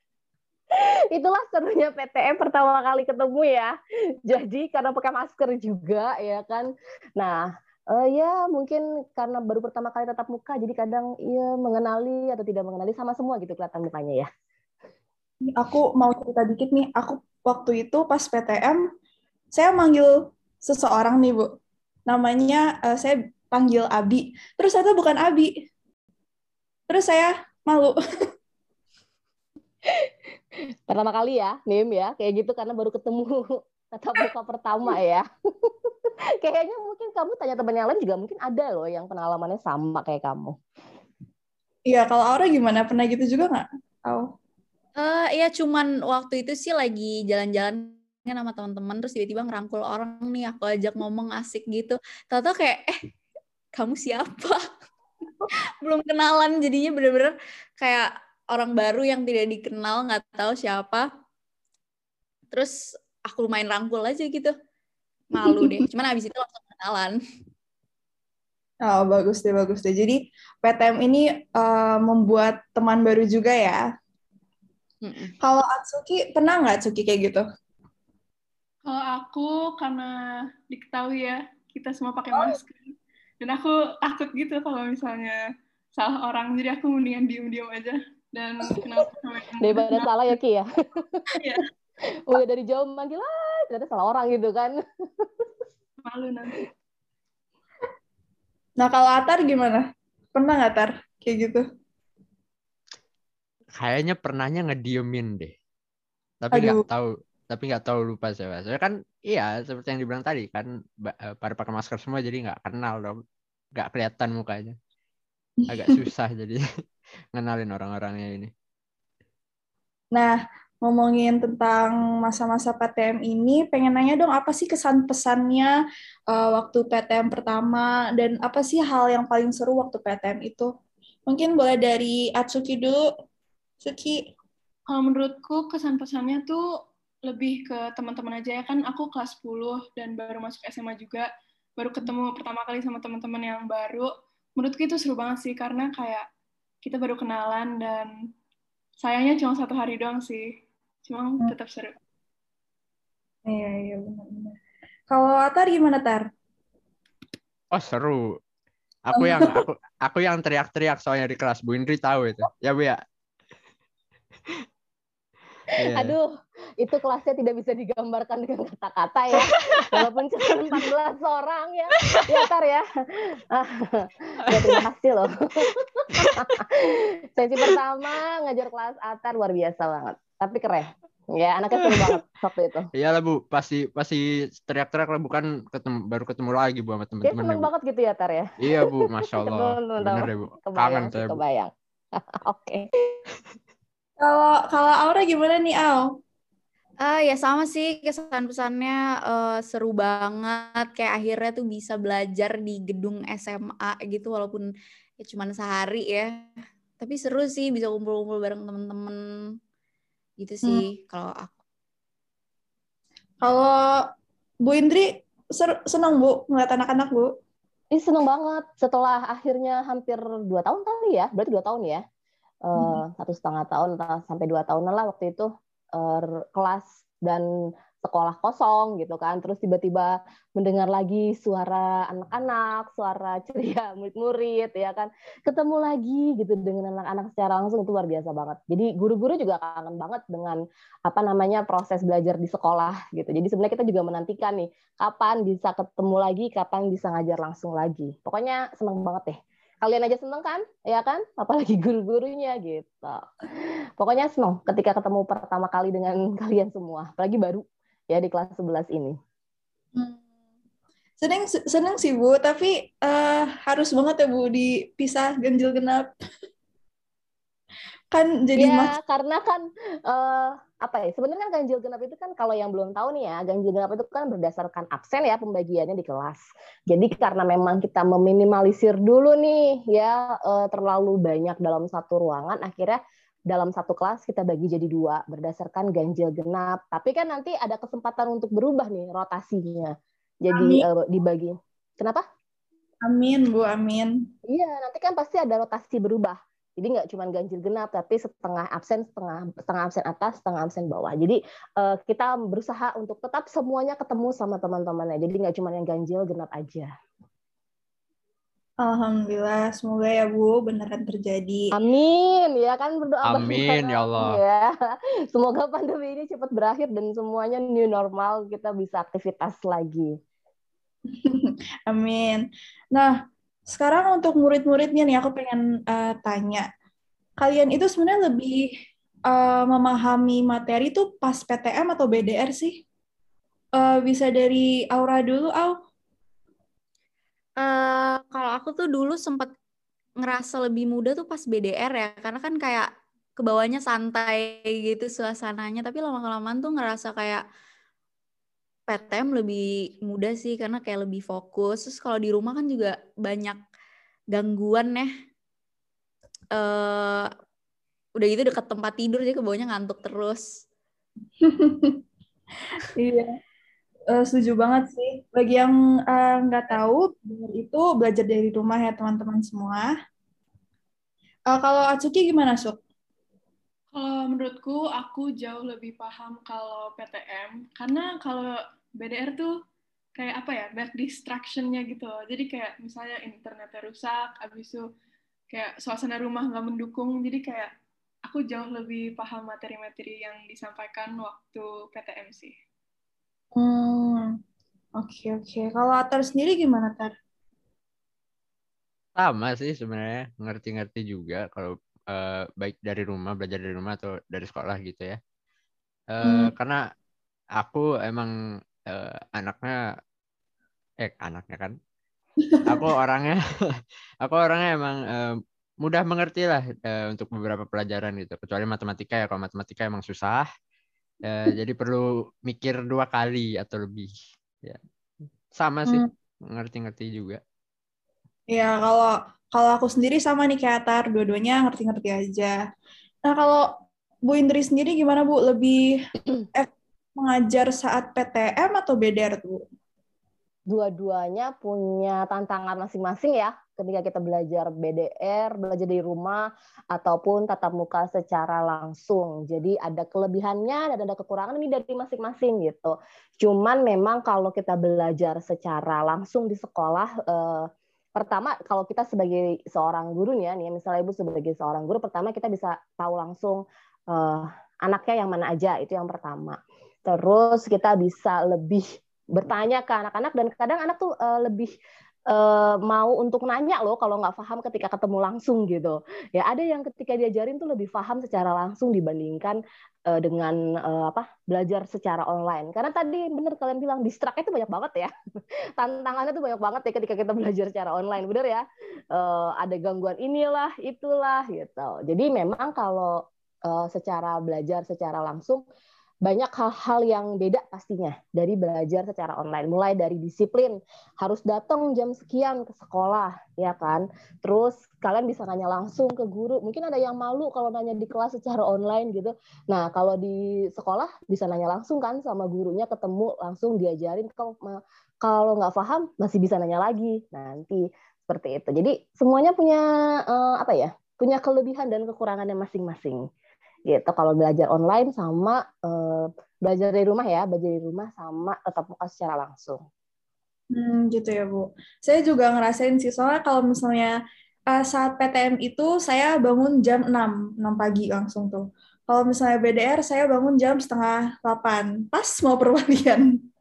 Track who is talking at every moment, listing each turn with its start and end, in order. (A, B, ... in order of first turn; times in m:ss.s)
0:00.7-0:14.3 A
0:15.5-0:18.8 B
0:19.5-0:21.5 B
0:22.1-0:25.5 B
0:26.9-0:28.0 B
0:29.8-0:40.6 A
0:41.9-0:44.3 B
0:45.0-0:53.0 C
0:53.7-0:54.6 C
0:55.8-1:01.1 C
1:03.3-1:04.5 C
1:05.3-1:07.2 C
1:08.8-1:13.8 B
1:15.0-1:15.3 C
1:15.4-1:17.4 B
1:18.8-1:20.2 D
1:20.7-1:25.4 D
1:26.0-1:30.1 D
1:29.6-1:31.3 A
1:31.4-1:31.6 D
1:32.2-1:35.5 A
1:36.0-1:36.6 D
1:38.8-1:41.6 B
1:43.8-1:45.5 E
1:46.4-1:53.2 E
1:46.5-1:46.8 B
1:53.7-1:54.7 E
1:55.6-1:56.0 B
1:55.7-1:56.6 E
1:57.3-1:58.5 E
2:00.1-2:05.7 B
2:06.3-2:10.7 B
2:11.3-2:13.0 B
2:13.8-2:14.2 B
2:14.9-2:16.6 D
2:17.3-2:21.2 D
2:21.8-2:26.2 D
2:26.8-2:28.1 D
2:29.0-2:30.5 D
2:31.0-2:32.0 D
2:33.5-2:34.6 B
2:35.1-2:36.3 B
2:37.7-2:38.3 E
2:39.0-2:43.0 E
2:39.2-2:39.6 B
2:45.7-2:46.2 E
2:45.8-2:46.3 A
2:46.8-3:02.9 A
2:54.5-2:54.8 E
2:56.2-2:56.5 E
3:03.0-3:07.7 E
3:07.2-3:12.9 A
3:08.6-3:11.4 E
3:14.2-3:16.0 B
3:17.0-3:24.7 C
3:25.2-3:26.5 C
3:27.0-3:29.2 C
3:30.4-3:31.5 C
3:33.4-3:34.0 B
3:34.6-3:37.3 B
3:37.9-3:42.0 A
3:42.7-3:47.5 A
3:42.8-3:43.0 B
3:48.0-4:13.2 A
4:14.0-4:19.2 A
4:20.0-4:20.2 B
4:21.2-4:26.1 B
4:28.1-4:28.9 B
4:28.6-4:52.2 A
4:50.5-4:50.9 B
4:53.0-4:54.3 B
4:54.5-5:06.9 A
5:08.8-5:11.7 B
5:11.7-5:14.7 A
5:13.2-5:14.4 E
5:15.3-5:20.2 A
5:21.1-5:23.2 B
5:23.7-5:26.7 B
5:27.4-5:28.7 B
5:29.3-5:32.8 B
5:33.8-5:35.8 B
5:37.6-5:39.5 C
5:40.2-5:42.9 C
5:43.4-5:47.4 C
5:48.9-5:53.6 C
5:54.3-5:55.1 C
5:56.6-5:57.3 C
5:58.2-6:00.4 C
6:01.4-6:02.0 B
6:03.0-6:03.4 B
6:04.1-6:09.9 B
6:11.5-6:12.8 B
6:13.9-6:19.5 D
6:20.2-6:24.8 D
6:25.5-6:27.7 D
6:28.2-6:32.5 D
6:33.6-6:34.4 B
6:35.0-6:37.1 B
6:39.2-6:45.2 E
6:46.1-6:46.8 E
6:46.2-6:46.5 B
6:47.6-6:48.3 E
6:48.9-6:49.8 E
6:51.0-6:51.8 E
6:52.4-6:52.9 B
6:52.6-6:53.4 E
6:54.2-7:00.5 E
7:01.2-7:04.1 E
7:05.6-7:07.4 E
7:08.5-7:12.6 B
7:13.2-7:13.7 B
7:14.2-7:19.6 B
7:20.7-7:51.7 A
7:52.3-7:59.6 A
8:00.1-8:05.1 A
8:05.8-8:15.6 A
8:16.2-8:43.2 A
8:43.9-8:49.8 A
8:50.7-8:54.1 B
8:54.7-9:03.3 B